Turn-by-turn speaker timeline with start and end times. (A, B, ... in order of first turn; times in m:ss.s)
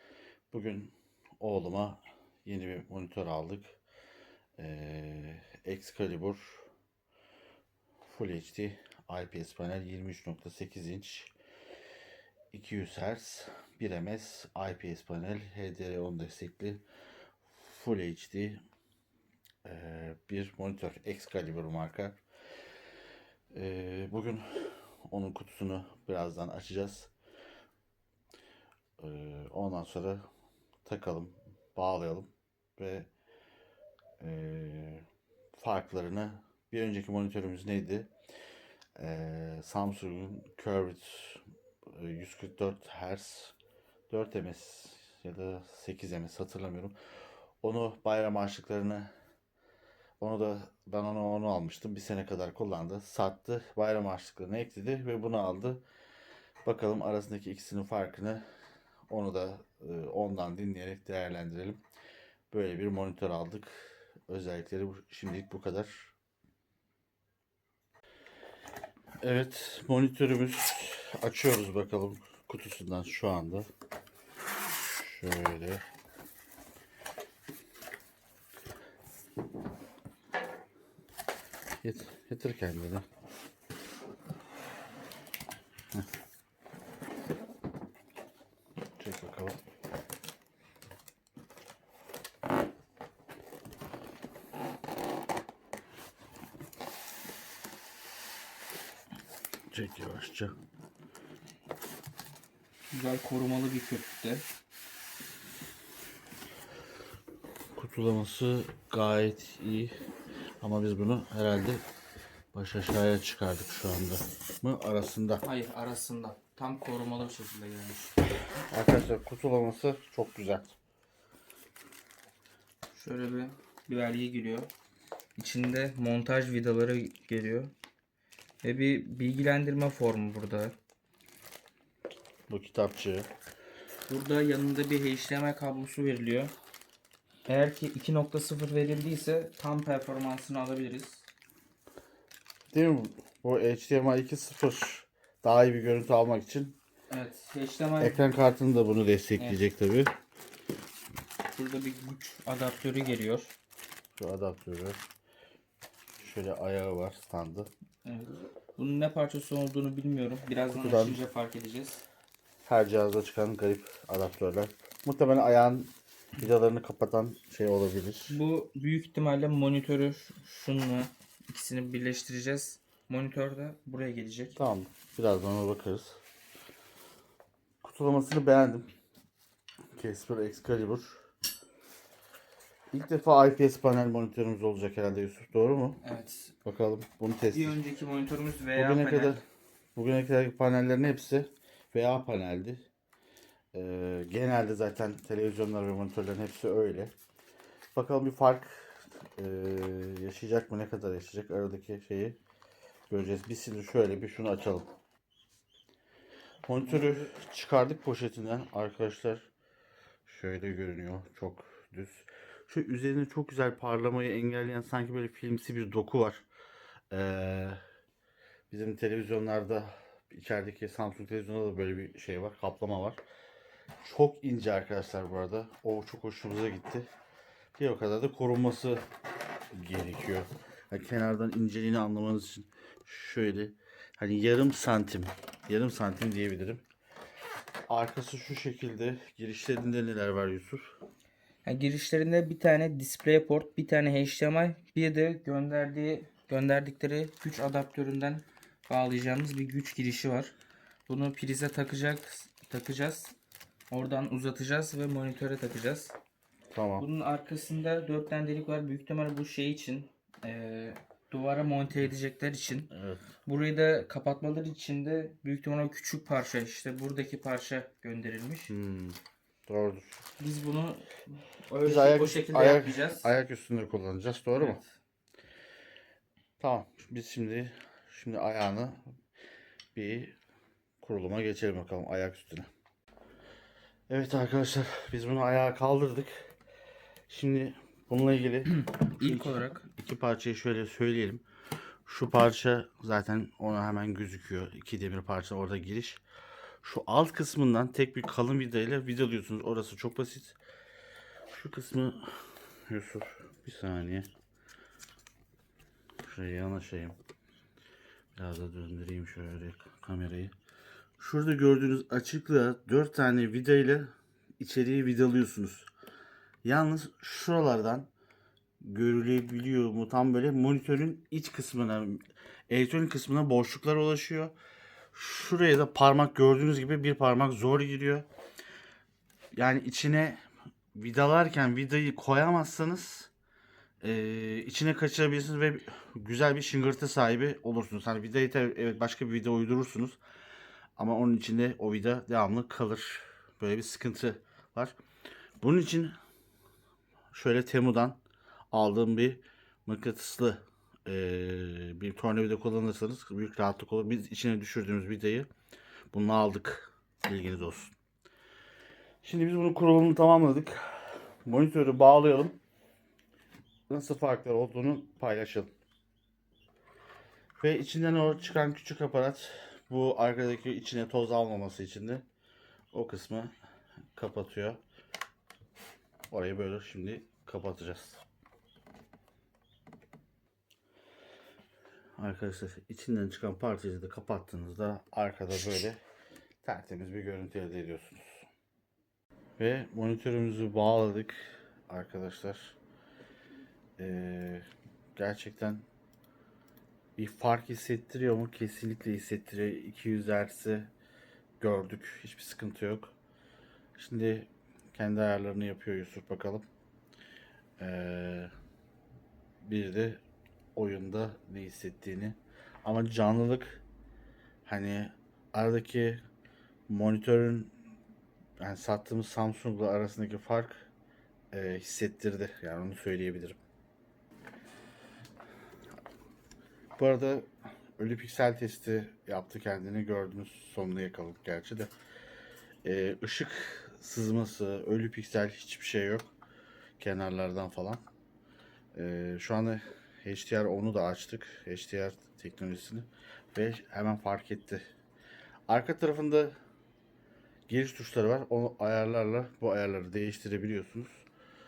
0:00.5-0:03.8 A
0:04.6-0:06.6 A
0:08.0-0:11.3 A
0:12.5-0:16.8 A
0:17.6-0:18.6 A
0:19.6-0:22.2 A
0:23.5-0:27.1 A
0:29.0-0:30.2 A
0:30.8-0:33.1 A
0:34.2-0:38.1 A
0:39.0-0:43.5 A
0:44.1-0:47.0 A
0:47.6-0:49.1 A
0:50.2-0:55.8 A
0:56.6-0:58.4 A
0:59.1-1:01.8 A
1:02.5-1:06.1 A
1:09.2-1:13.7 A
1:15.0-1:15.8 A
1:21.8-1:23.0 A
1:29.0-1:29.6 A
1:39.7-1:40.5 A
1:42.9-1:44.4 B
1:47.8-1:49.9 A
1:50.6-1:51.8 A
1:52.5-1:55.4 A
1:55.4-1:58.2 B
1:58.7-2:00.8 A
2:02.9-2:04.7 B
2:05.4-2:07.7 B
2:08.6-2:10.7 B
2:12.5-2:13.3 A
2:14.1-2:16.5 B
2:17.4-2:21.2 B
2:22.7-2:26.8 A
2:27.1-2:28.2 B
2:28.0-2:30.1 A
2:29.4-2:29.6 B
2:31.5-2:33.5 B
2:34.2-2:35.0 A
2:36.2-2:37.7 A
2:38.0-2:42.0 B
2:40.7-2:41.2 A
2:42.6-2:48.4 A
2:48.3-2:54.6 B
2:54.6-2:56.2 A
2:57.8-2:58.9 A
2:59.9-3:01.2 A
3:02.9-3:06.0 A
3:06.0-3:06.5 B
3:06.6-3:07.8 A
3:07.5-3:09.4 B
3:08.7-3:09.4 A
3:10.0-3:12.8 A
3:13.7-3:17.1 A
3:17.9-3:22.4 A
3:23.1-3:24.9 A
3:26.7-3:29.5 A
3:26.8-3:27.3 B
3:30.2-3:36.4 A
3:37.1-3:37.8 A
3:38.7-3:43.2 A
3:44.0-3:47.1 A
3:47.8-3:49.0 A
3:49.7-3:56.8 A
3:57.9-4:00.9 A
4:01.6-4:10.6 B
4:11.1-4:13.3 B
4:13.9-4:16.1 B
4:16.7-4:17.0 A
4:17.0-4:22.9 B
4:22.9-4:23.2 A
4:23.4-4:28.7 B
4:28.7-4:30.2 A
4:30.4-4:33.3 B
4:31.8-4:34.8 A
4:34.6-4:35.0 B
4:36.6-4:39.0 A
4:39.9-4:40.4 A
4:41.0-4:42.7 A
4:44.1-4:46.5 A
4:47.3-4:51.4 A
4:48.7-4:49.9 B
4:52.1-4:56.2 A
4:56.8-5:00.6 A
5:01.5-5:04.3 A
5:06.2-5:07.2 A
5:08.4-5:10.5 A
5:11.2-5:15.9 A
5:16.6-5:18.1 A
5:18.8-5:24.5 A
5:25.1-5:28.3 A
5:29.5-5:30.4 A
5:30.9-5:33.3 A
5:34.0-5:40.2 A
5:41.0-5:44.9 A
5:45.6-5:46.1 A
5:47.3-5:48.2 A
5:48.7-5:55.5 A
5:56.1-5:57.9 A
5:59.2-6:02.6 A
6:03.9-6:05.7 A
6:07.6-6:12.2 A
6:12.9-6:13.5 A
6:14.1-6:14.8 A
6:16.3-6:18.2 A
6:22.2-6:26.0 A
6:26.6-6:28.4 A
6:29.6-6:31.4 A
6:31.9-6:32.8 A
6:34.0-6:35.8 A
6:37.2-6:40.9 A
6:41.6-6:43.1 A
6:44.0-6:46.6 A
6:47.8-6:48.5 A
6:49.6-6:50.2 A
6:50.8-6:53.8 A
6:54.6-6:56.2 A
6:56.9-6:57.7 A
6:58.6-7:00.9 A
7:01.5-7:03.6 A
7:07.0-7:11.9 A
7:12.8-7:16.3 A
7:17.0-7:18.0 A
7:18.9-7:24.8 A
7:25.7-7:26.6 A
7:27.7-7:31.2 A